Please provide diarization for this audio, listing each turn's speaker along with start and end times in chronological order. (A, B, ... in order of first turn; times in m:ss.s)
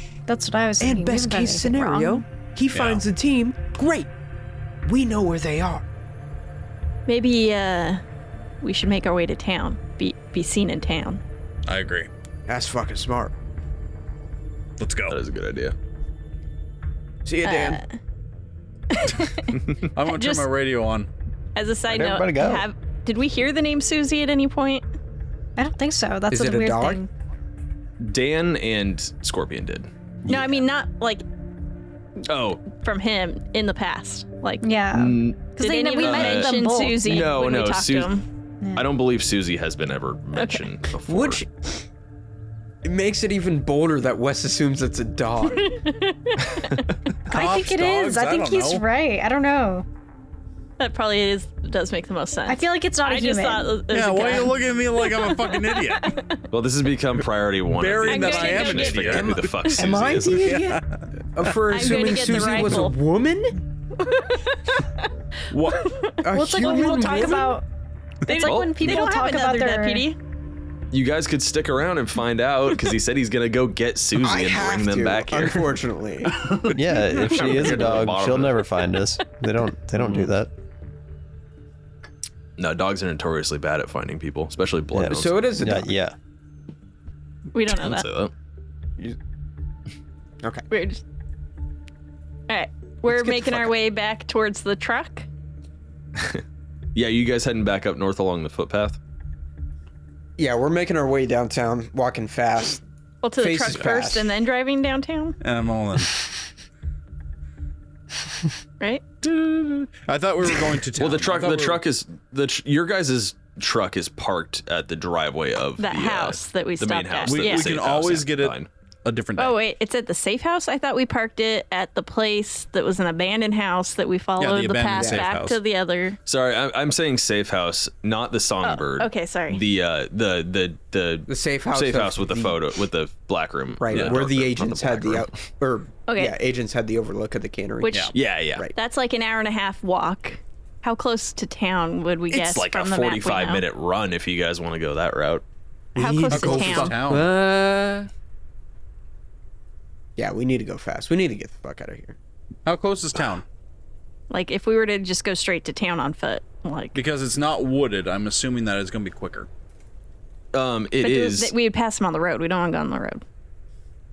0:00.3-0:02.2 A
0:00.8-0:04.1 B
0:02.7-0:03.0 C
0:04.8-0:05.9 B
0:07.1-0:08.0 D
0:08.6-0:11.2 D
0:11.7-0:12.1 C
0:12.5-0:13.3 B
0:14.8-0:15.2 C
0:15.1-0:15.8 E
0:17.2-0:17.8 B
0:17.4-0:18.0 D
0:18.9-0:20.5 D
0:19.9-0:21.1 C
0:21.6-0:24.8 D
0:21.9-0:22.7 F
0:25.6-0:27.1 A
0:26.3-0:27.0 B
0:28.0-0:29.9 E
0:30.3-0:30.6 F
0:30.3-0:31.2 D
0:32.3-0:32.6 E
0:32.7-0:34.7 D
0:34.6-0:37.1 A
0:34.9-0:35.5 E
0:35.6-0:38.2 D
0:36.0-0:38.1 E
0:38.8-0:41.4 E
0:40.4-0:40.6 D
0:41.1-0:41.8 B
0:42.8-0:45.8 B
0:45.5-0:46.9 D
0:47.3-0:49.8 A
0:47.3-0:48.8 C
0:50.8-0:56.2 D
0:52.5-0:54.5 A
0:53.9-0:56.2 C
0:56.5-1:00.7 E
0:57.7-1:01.0 C
0:58.1-0:59.4 D
0:59.6-1:03.6 B
1:01.7-1:03.0 D
1:05.5-1:05.9 C
1:05.7-1:06.2 D
1:06.2-1:07.6 B
1:06.3-1:07.6 A
1:08.3-1:10.1 A
1:08.3-1:10.2 D
1:08.3-1:08.8 E
1:10.9-1:15.7 E
1:14.2-1:16.4 B
1:16.4-1:16.8 C
1:16.7-1:20.5 F
1:17.1-1:18.7 E
1:22.6-1:25.5 E
1:24.9-1:26.2 F
1:25.1-1:25.9 B
1:27.5-1:28.0 D
1:27.7-1:28.3 E
1:30.7-1:31.0 D
1:32.5-1:35.3 D
1:33.1-1:33.7 B
1:36.2-1:36.4 E
1:37.0-1:39.0 E
1:40.4-1:42.8 B
1:43.2-1:45.4 D
1:43.4-1:44.4 B
1:45.4-1:46.4 C
1:50.0-1:51.8 C
1:51.0-1:58.7 E
1:55.8-1:57.7 D
1:57.2-1:59.6 C
1:59.4-2:06.2 D
2:04.4-2:05.6 C
2:05.0-2:05.3 B
2:06.3-2:15.4 E
2:08.6-2:09.6 D
2:11.3-2:12.6 B
2:13.8-2:18.7 B
2:16.1-2:16.4 D
2:17.8-2:18.2 D
2:18.1-2:18.7 E
2:18.7-2:23.6 D
2:22.3-2:25.4 E
2:26.0-2:28.1 B
2:26.0-2:27.0 D
2:26.3-2:27.3 C
2:30.2-2:32.2 B
2:32.7-2:33.4 C
2:34.3-2:37.0 D
2:36.9-2:39.5 C
2:40.5-2:41.5 E
2:41.0-2:43.2 D